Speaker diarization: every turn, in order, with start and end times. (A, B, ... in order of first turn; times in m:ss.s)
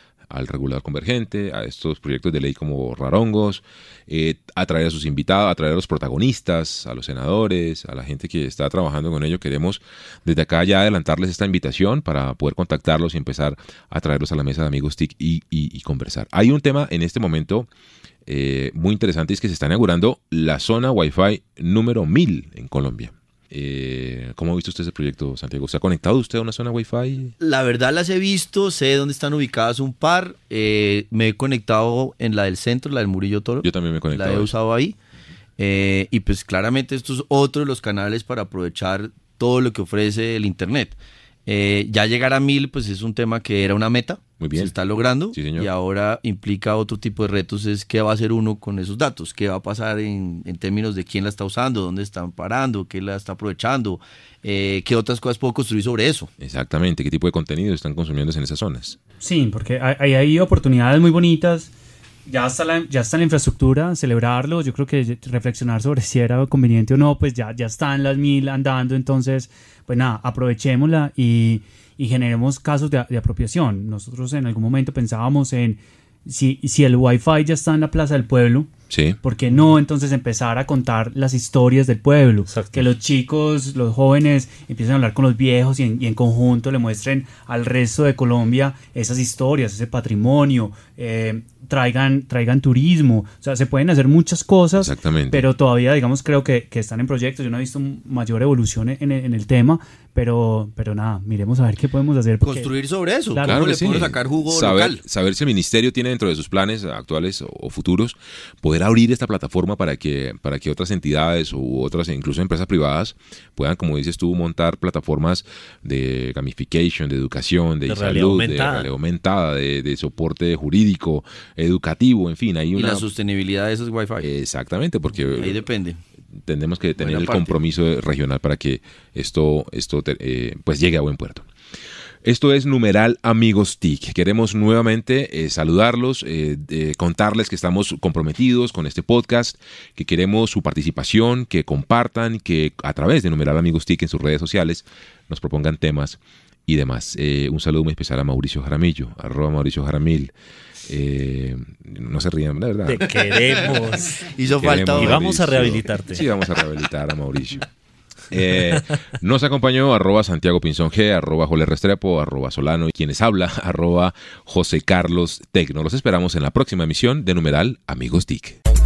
0:00.3-0:17.7 A
0:18.3-0:27.3 A
0:27.4-0:35.0 B
0:33.6-0:34.5 A
0:35.6-0:56.3 B
0:44.4-0:44.7 A
0:45.3-0:45.7 A
0:56.4-0:59.0 A
0:59.2-1:01.7 C
1:02.2-1:18.7 C
1:18.9-1:19.2 A
1:19.2-1:42.7 C
1:22.5-1:22.9 D
1:34.7-1:35.5 A
1:42.4-1:45.0 B
1:43.4-2:03.1 A
1:57.9-1:58.9 D
2:02.8-2:04.3 B
2:04.2-2:05.6 A
2:05.3-2:06.0 B
2:06.4-2:11.5 A
2:07.0-2:07.6 B
2:12.2-2:30.3 A
2:30.9-2:33.1 A
2:32.9-2:34.2 D
2:34.2-2:35.8 B
2:34.6-2:37.7 A
2:35.0-2:36.2 D
2:38.3-2:48.6 A